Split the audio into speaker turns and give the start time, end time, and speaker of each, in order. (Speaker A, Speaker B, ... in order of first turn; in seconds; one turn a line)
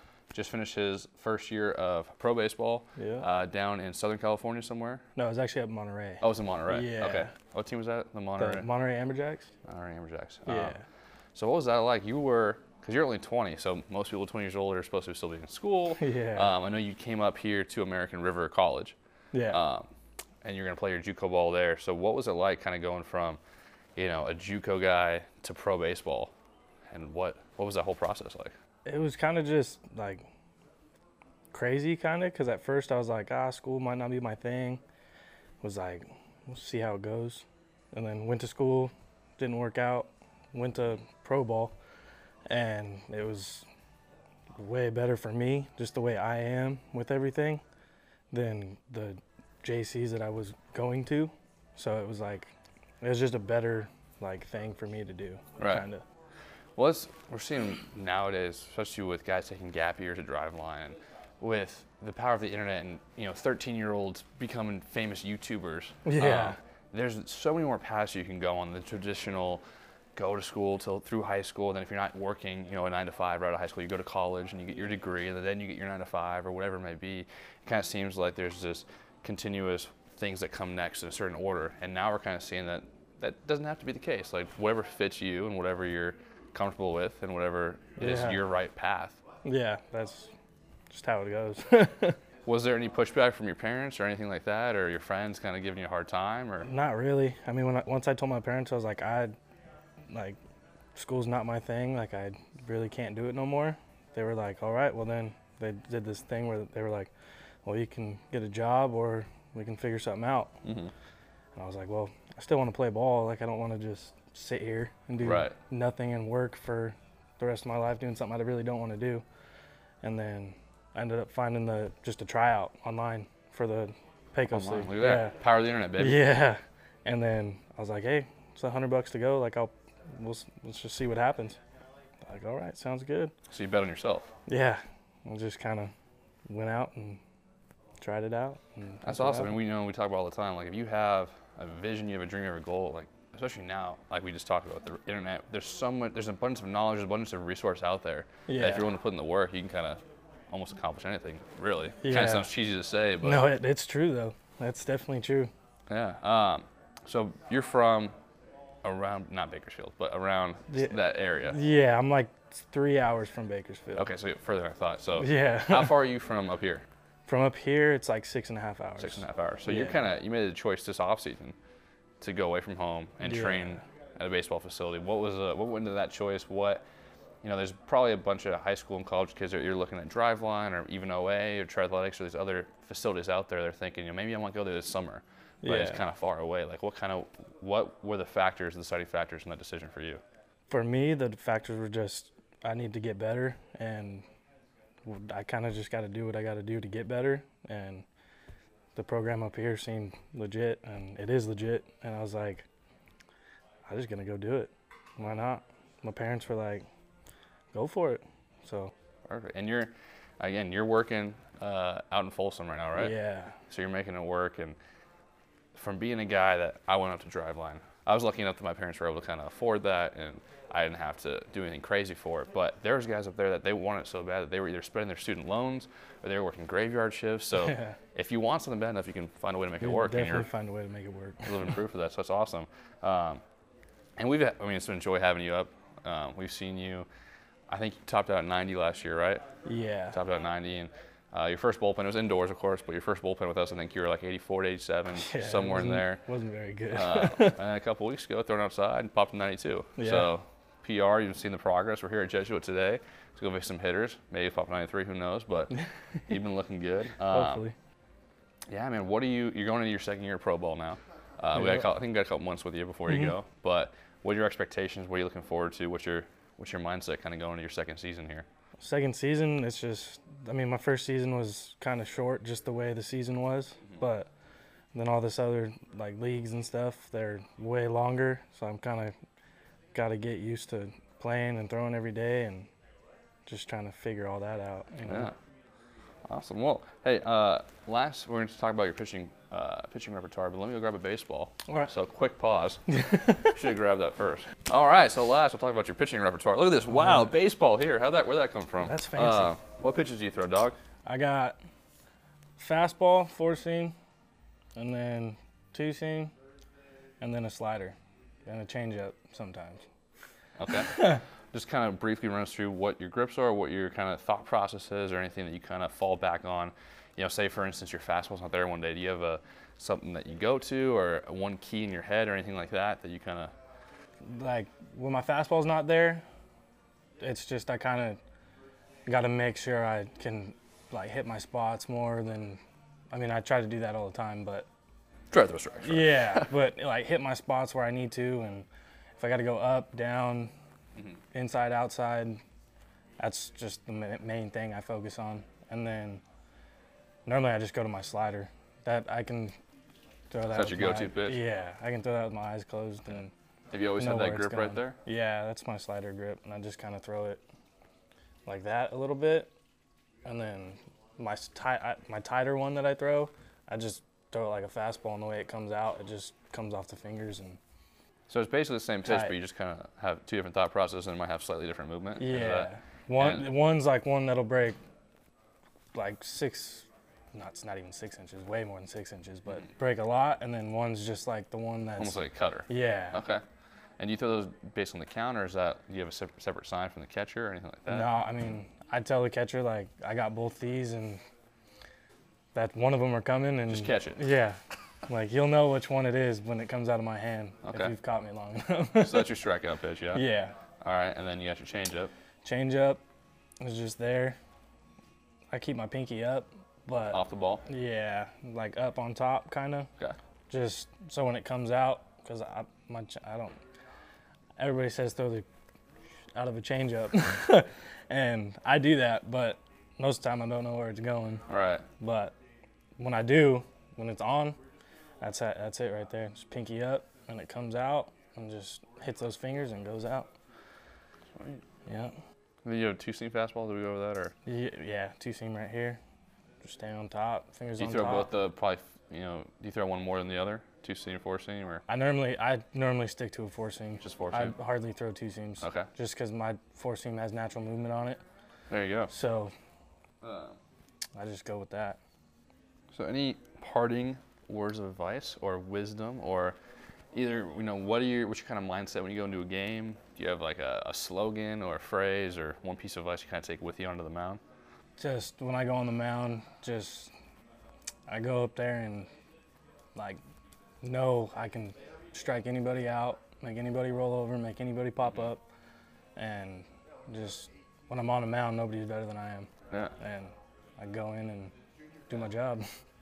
Speaker A: 0.3-5.0
Speaker B: 3.0-3.3
Speaker B: 5.2-7.3
Speaker A: 6.2-8.7
Speaker B: 8.4-9.5
Speaker A: 9.7-10.8
Speaker B: 10.5-10.8
Speaker A: 11.3-19.0
Speaker B: 16.0-16.5
Speaker B: 19.3-19.6
Speaker A: 19.5-19.9
Speaker A: 20.4-23.4
Speaker A: 24.0-26.3
Speaker A: 26.9-28.5
Speaker B: 28.9-30.3
Speaker B: 31.5-34.8
Speaker B: 35.6-41.8
Speaker B: 42.5-43.7
Speaker B: 44.6-47.6
Speaker B: 48.3-56.0
Speaker A: 55.6-55.9
Speaker A: 56.8-69.6
Speaker B: 66.0-66.6
Speaker A: 70.2-89.2
Speaker B: 88.0-88.4
Speaker B: 89.4-90.3
Speaker B: 90.9-92.2
Speaker A: 92.5-96.7
Speaker B: 96.6-99.3
Speaker B: 100.1-100.4
Speaker B: 101.0-107.1
Speaker B: 107.7-110.6
Speaker A: 110.6-110.9
Speaker B: 111.5-119.2
Speaker A: 115.2-115.5
Speaker B: 120.0-125.4
Speaker A: 124.5-126.3
Speaker B: 126.0-131.6
Speaker B: 132.2-133.3
Speaker A: 133.5-134.3
Speaker B: 134.5-135.9
Speaker B: 136.5-137.2
Speaker B: 138.0-139.6
Speaker A: 139.1-153.5
Speaker B: 148.5-148.9
Speaker B: 152.0-152.5
Speaker B: 153.2-155.5
Speaker A: 155.9-158.2
Speaker A: 158.8-161.6
Speaker B: 160.7-164.1
Speaker A: 164.0-166.9
Speaker B: 165.2-166.0
Speaker B: 167.3-170.0
Speaker A: 169.0-171.6
Speaker A: 172.2-176.8
Speaker B: 173.2-173.8
Speaker A: 177.4-190.2
Speaker B: 185.6-186.0
Speaker B: 190.7-194.2
Speaker B: 195.1-198.1
Speaker B: 198.9-202.7
Speaker B: 203.9-206.9
Speaker B: 207.7-208.9
Speaker A: 209.3-213.2
Speaker B: 213.0-213.6
Speaker A: 213.7-214.8
Speaker A: 215.8-230.5
Speaker B: 227.6-228.0
Speaker B: 229.8-231.8
Speaker A: 231.4-233.4
Speaker A: 234.2-237.1
Speaker A: 237.7-239.4
Speaker B: 239.7-240.2
Speaker A: 240.1-246.2
Speaker B: 245.1-247.6
Speaker A: 246.9-255.7
Speaker B: 250.0-250.3
Speaker A: 256.3-257.6
Speaker B: 257.3-257.8
Speaker A: 258.7-268.5
Speaker B: 261.5-261.9
Speaker B: 263.1-263.3
Speaker B: 268.8-274.3
Speaker B: 274.9-279.1
Speaker B: 279.9-282.7
Speaker B: 283.5-285.3
Speaker A: 285.1-285.4
Speaker A: 286.3-300.8
Speaker B: 292.9-293.5
Speaker B: 296.9-297.3
Speaker B: 298.8-299.5
Speaker B: 301.1-301.6
Speaker B: 302.6-303.9
Speaker B: 304.8-306.3
Speaker B: 307.2-309.9
Speaker A: 310.6-323.5
Speaker B: 310.8-311.2
Speaker B: 324.3-326.2
Speaker B: 327.2-328.2
Speaker B: 329.1-332.6
Speaker B: 333.1-334.7
Speaker A: 335.3-336.5
Speaker B: 335.8-338.7
Speaker B: 339.2-340.5
Speaker B: 341.3-342.4
Speaker B: 343.2-346.2
Speaker B: 347.3-349.6
Speaker B: 350.3-353.3
Speaker A: 350.5-351.4
Speaker A: 353.7-355.0
Speaker B: 354.0-357.4
Speaker B: 358.5-359.5
Speaker B: 360.2-367.6
Speaker A: 368.3-373.5
Speaker B: 369.1-369.4
Speaker B: 372.2-374.8
Speaker B: 375.9-383.2
Speaker A: 382.0-383.4
Speaker A: 384.0-388.1
Speaker B: 387.9-391.2
Speaker B: 392.6-399.4
Speaker A: 393.7-394.2
Speaker A: 397.7-397.9
Speaker A: 399.0-400.2
Speaker B: 400.1-400.6
Speaker A: 400.8-402.1
Speaker B: 402.4-403.0
Speaker B: 403.6-404.4
Speaker B: 405.5-409.9
Speaker A: 407.1-407.6
Speaker B: 410.5-413.6
Speaker B: 414.6-415.5
Speaker B: 416.4-421.4
Speaker A: 421.5-421.8
Speaker B: 422.0-422.3
Speaker B: 423.0-424.6
Speaker B: 425.2-430.3
Speaker A: 431.4-431.6
Speaker B: 431.9-432.1
Speaker A: 432.6-434.3
Speaker B: 434.5-436.0
Speaker B: 436.6-438.3
Speaker A: 437.8-441.8
Speaker B: 441.9-448.2
Speaker A: 444.0-444.5
Speaker A: 445.6-445.9
Speaker A: 448.7-449.1
Speaker B: 449.1-449.5
Speaker A: 450.2-450.6
Speaker B: 451.2-452.0
Speaker A: 452.9-456.6
Speaker A: 457.1-464.4
Speaker B: 465.0-467.1
Speaker B: 468.1-469.1
Speaker B: 469.9-470.2
Speaker B: 470.8-475.4
Speaker B: 476.2-481.5
Speaker B: 482.1-482.6